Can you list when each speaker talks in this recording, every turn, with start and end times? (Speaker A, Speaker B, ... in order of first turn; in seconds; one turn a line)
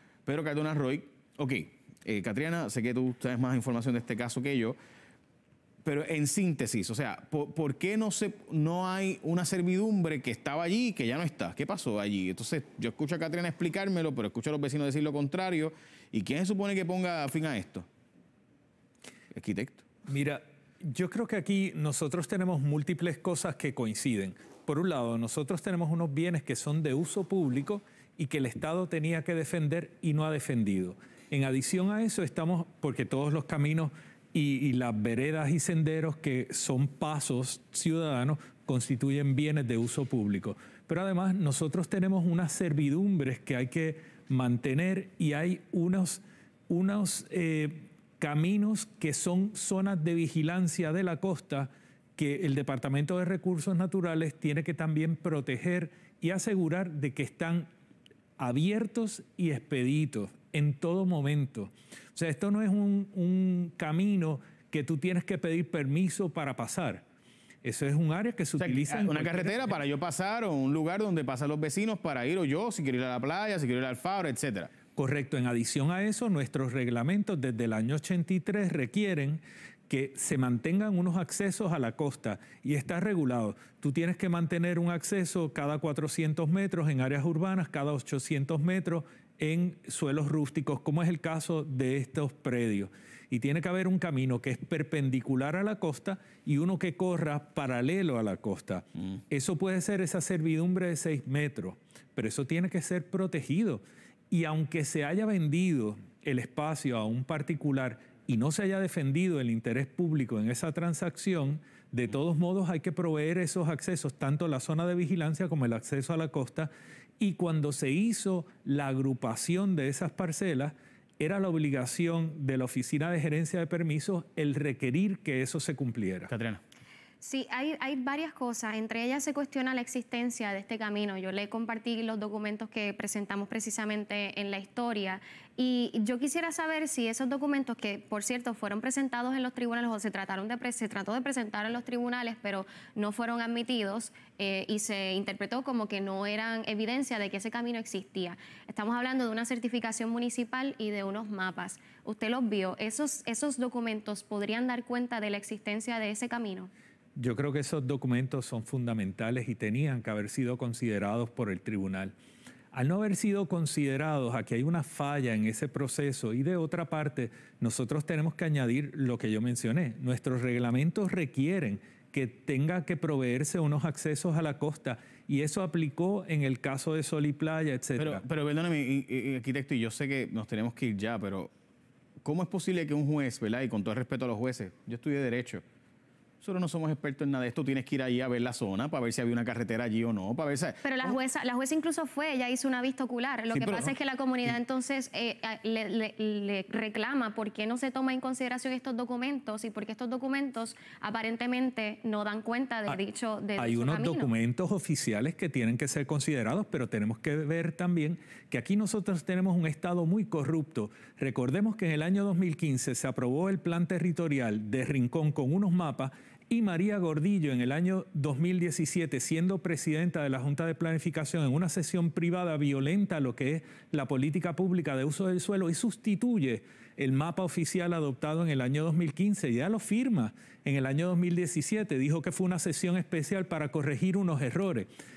Speaker A: 0.3-4.8
Speaker A: 5.8-17.9
Speaker A: 19.3-19.9
Speaker B: 20.1-57.7
Speaker B: 58.4-67.0
Speaker B: 67.6-69.8
Speaker A: 68.6-74.7
Speaker B: 75.0-126.3
Speaker A: 126.3-126.6
Speaker C: 127.2-156.7
Speaker B: 157.2-162.1
Speaker B: 162.7-178.2
Speaker A: 178.0-181.5
Speaker A: 182.2-185.6
Speaker A: 186.4-191.2
Speaker C: 190.8-204.3
Speaker A: 193.5-193.9
Speaker B: 203.6-234.9